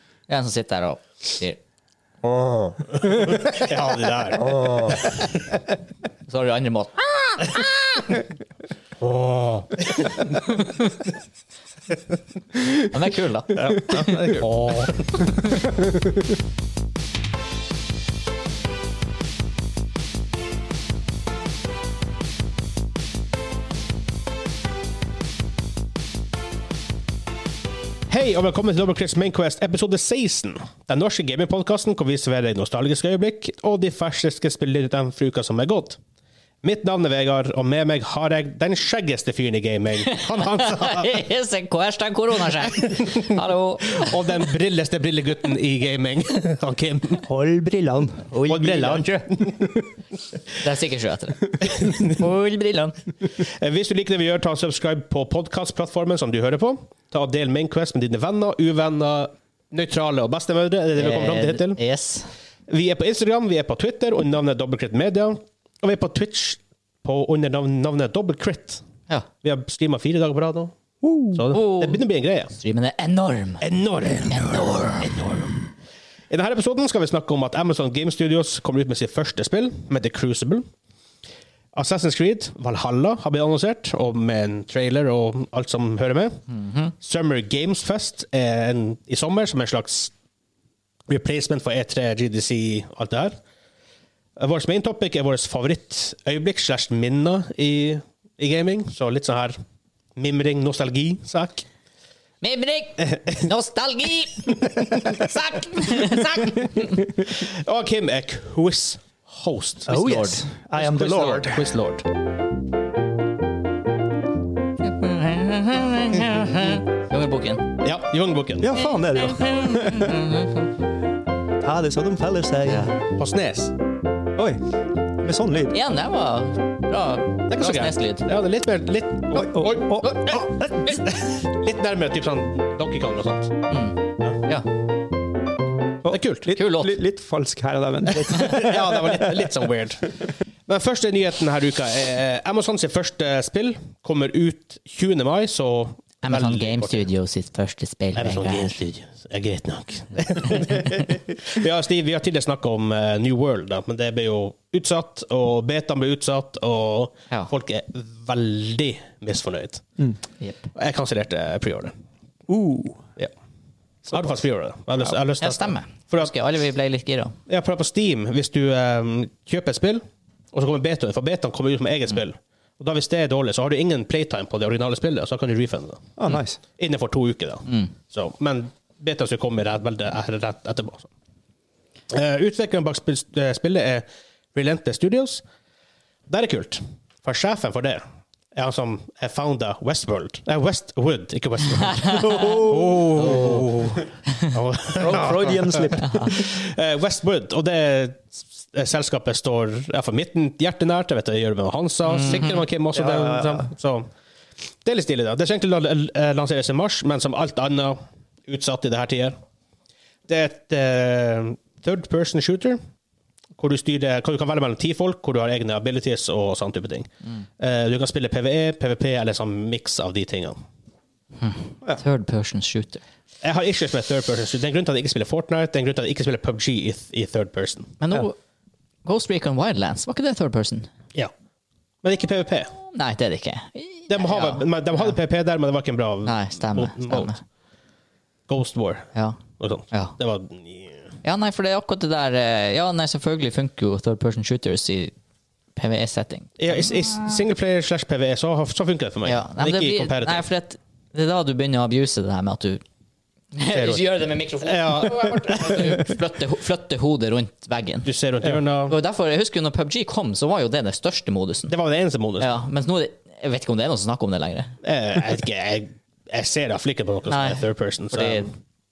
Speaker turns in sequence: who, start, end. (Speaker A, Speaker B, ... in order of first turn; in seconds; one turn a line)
Speaker A: 0.3-1.6
Speaker B: 2.9-5.2
Speaker A: 6.3-7.6
Speaker B: 9.0-10.2
Speaker A: 10.4-10.9
Speaker A: 12.8-14.0
Speaker B: 13.5-15.1
Speaker B: 28.1-36.0
Speaker B: 36.6-41.2
Speaker A: 40.0-44.4
Speaker B: 42.6-43.4
Speaker B: 43.9-47.2
Speaker C: 47.2-49.1
Speaker A: 48.4-49.2
Speaker B: 48.4-49.7
Speaker A: 50.6-53.0
Speaker B: 51.7-52.2
Speaker B: 53.4-61.8
Speaker A: 61.0-62.3
Speaker B: 62.7-68.8
Speaker B: 69.4-70.7
Speaker C: 71.0-71.4
Speaker B: 71.3-72.5
Speaker A: 71.5-72.0
Speaker A: 72.5-75.3
Speaker B: 73.6-75.5
Speaker B: 76.3-80.7
Speaker B: 81.7-86.4
Speaker A: 86.5-86.9
Speaker B: 87.0-90.1
Speaker B: 91.1-93.3
Speaker B: 94.4-99.6
Speaker B: 100.2-101.6
Speaker A: 102.4-107.0
Speaker B: 107.2-110.2
Speaker C: 109.9-111.8
Speaker A: 109.9-110.4
Speaker B: 110.7-112.0
Speaker A: 114.8-117.7
Speaker B: 117.8-118.7
Speaker C: 118.6-120.3
Speaker A: 119.4-120.7
Speaker C: 121.6-122.9
Speaker A: 122.7-123.0
Speaker B: 123.2-123.7
Speaker C: 124.3-124.7
Speaker C: 125.2-125.8
Speaker A: 125.7-128.3
Speaker B: 127.5-133.6
Speaker C: 129.3-130.7
Speaker A: 130.0-131.0
Speaker A: 133.7-134.7
Speaker C: 136.0-139.5
Speaker B: 136.1-136.5
Speaker A: 136.5-136.9
Speaker B: 138.2-147.1
Speaker A: 138.2-138.6
Speaker A: 146.2-148.8
Speaker B: 148.1-159.8
Speaker B: 160.7-161.9
Speaker C: 162.5-163.1
Speaker B: 164.0-166.3
Speaker A: 165.4-167.3
Speaker B: 167.5-176.2
Speaker C: 176.2-176.6
Speaker B: 176.8-181.1
Speaker B: 182.1-185.4
Speaker B: 186.3-188.0
Speaker B: 188.5-204.1
Speaker C: 192.1-193.7
Speaker A: 193.2-193.6
Speaker C: 194.9-196.4
Speaker A: 196.0-196.3
Speaker A: 202.1-202.6
Speaker C: 203.0-203.7
Speaker B: 204.8-209.3
Speaker B: 210.3-212.8
Speaker B: 213.6-220.6
Speaker A: 221.4-223.0
Speaker B: 223.4-228.0
Speaker A: 228.0-228.3
Speaker A: 229.0-230.9
Speaker B: 232.0-232.7
Speaker A: 232.9-235.2
Speaker B: 234.1-237.3
Speaker A: 236.2-237.4
Speaker B: 238.5-241.0
Speaker A: 241.2-245.1
Speaker A: 245.8-246.8
Speaker B: 246.6-250.4
Speaker A: 249.2-252.8
Speaker A: 253.5-258.1
Speaker B: 253.7-254.0
Speaker B: 254.6-256.0
Speaker B: 258.1-259.0
Speaker A: 258.9-261.7
Speaker B: 261.7-262.5
Speaker A: 262.4-264.7
Speaker B: 264.8-268.5
Speaker A: 267.3-268.5